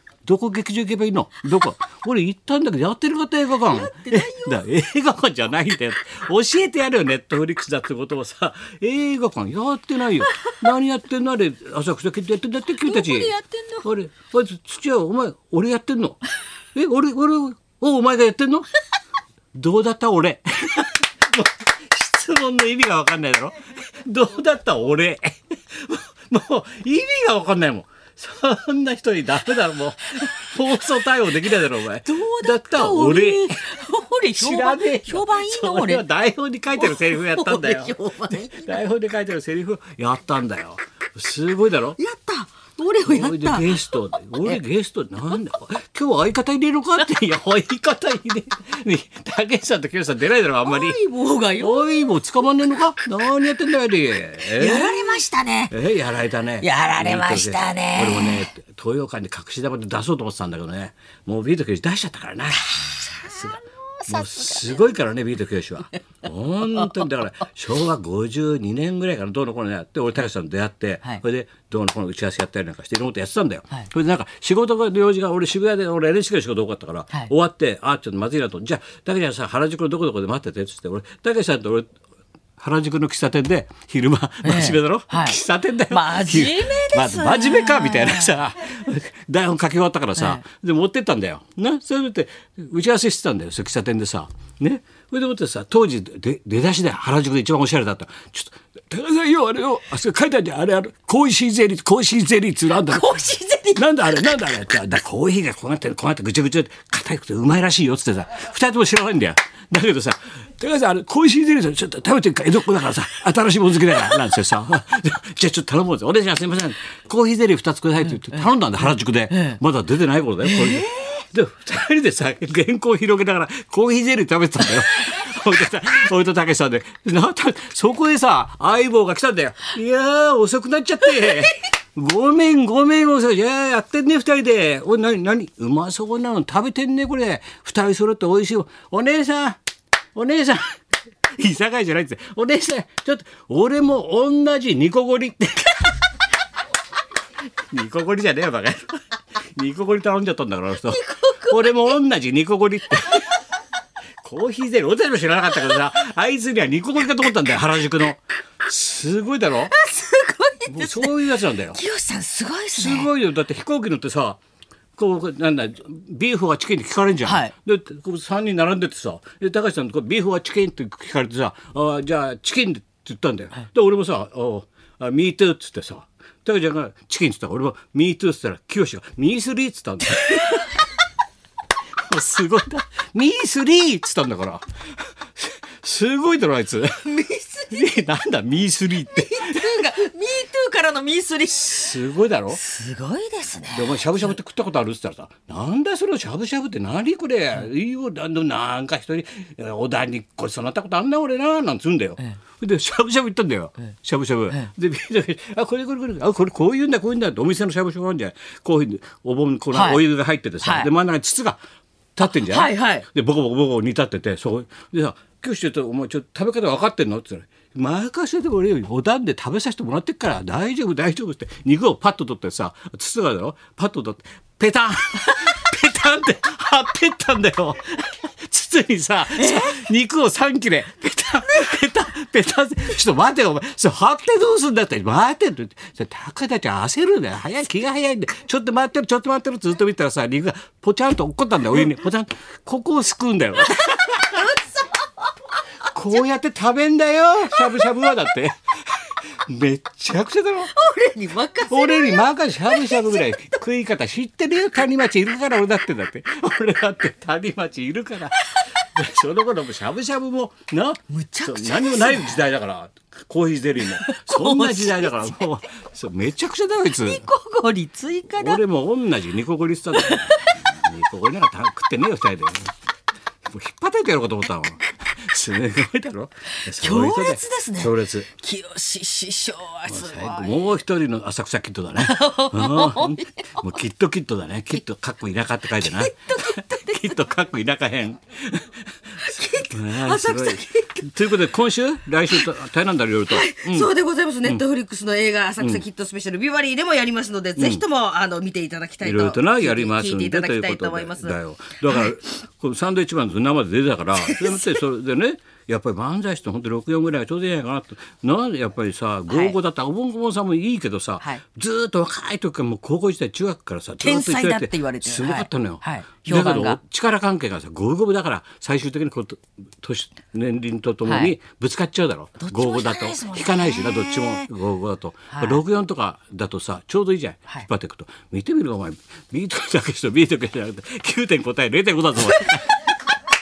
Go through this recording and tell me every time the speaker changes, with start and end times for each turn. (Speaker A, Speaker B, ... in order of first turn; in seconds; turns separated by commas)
Speaker A: 0.2-13.3, Speaker B: 3.7-4.6, Speaker B: 12.8-13.8, Speaker A: 13.8-16.2, Speaker A: 16.7-18.7, Speaker A: 19.5-33.6, Speaker B: 32.0-36.0, Speaker A: 34.4-42.0, Speaker B: 36.8-38.8, Speaker B: 42.0-44.6, Speaker A: 43.0-51.0, Speaker B: 50.6-52.1, Speaker A: 51.6-81.9, Speaker B: 54.5-55.7, Speaker B: 56.6-58.4, Speaker B: 64.0-64.8, Speaker A: 82.6-139.6, Speaker B: 84.4-88.3, Speaker B: 90.2-90.4, Speaker B: 102.8-104.2, Speaker B: 119.3-119.6, Speaker B: 120.4-121.1, Speaker A: 140.1-140.8, Speaker A: 141.4-146.0, Speaker A: 147.7-149.0, Speaker A: 149.5-153.3, Speaker B: 150.9-151.9, Speaker A: 154.2-159.7, Speaker B: 159.7-161.2, Speaker A: 160.7-161.8, Speaker B: 161.7-163.1, Speaker A: 162.7-164.4, Speaker A: 164.9-180.7, Speaker B: 167.2-167.5, Speaker A: 182.1-184.6, Speaker A: 185.4-187.0, Speaker B: 187.0-188.0, Speaker A: 187.7-189.8, Speaker B: 189.1-192.0, Speaker A: 191.7-192.6, Speaker B: 192.5-194.0, Speaker A: 193.7-211.6, Speaker B: 209.7-210.0, Speaker B: 210.6-210.9, Speaker A: 212.1-244.6, Speaker B: 212.2-213.1, Speaker B: 229.4-229.8, Speaker B: 243.8-244.9, Speaker A: 245.9-250.8, Speaker B: 250.7-253.6, Speaker A: 251.7-267.2, Speaker B: 261.1-262.4, Speaker B: 263.9-265.3, Speaker B: 267.0-268.6, Speaker A: 268.3-272.7, Speaker B: 269.9-270.5, Speaker A: 273.4-278.3, Speaker B: 276.7-280.6, Speaker A: 279.9-293.9, Speaker B: 282.0-283.6, Speaker B: 285.8-287.1, Speaker B: 289.2-291.1, Speaker B: 293.3-301.4, Speaker A: 297.6-297.8, Speaker A: 299.0-332.9, Speaker B: 304.2-304.8, Speaker B: 309.3-309.6, Speaker B: 314.0-316.8, Speaker B: 321.0-321.3, Speaker B: 322.4-324.5, Speaker B: 325.3-325.6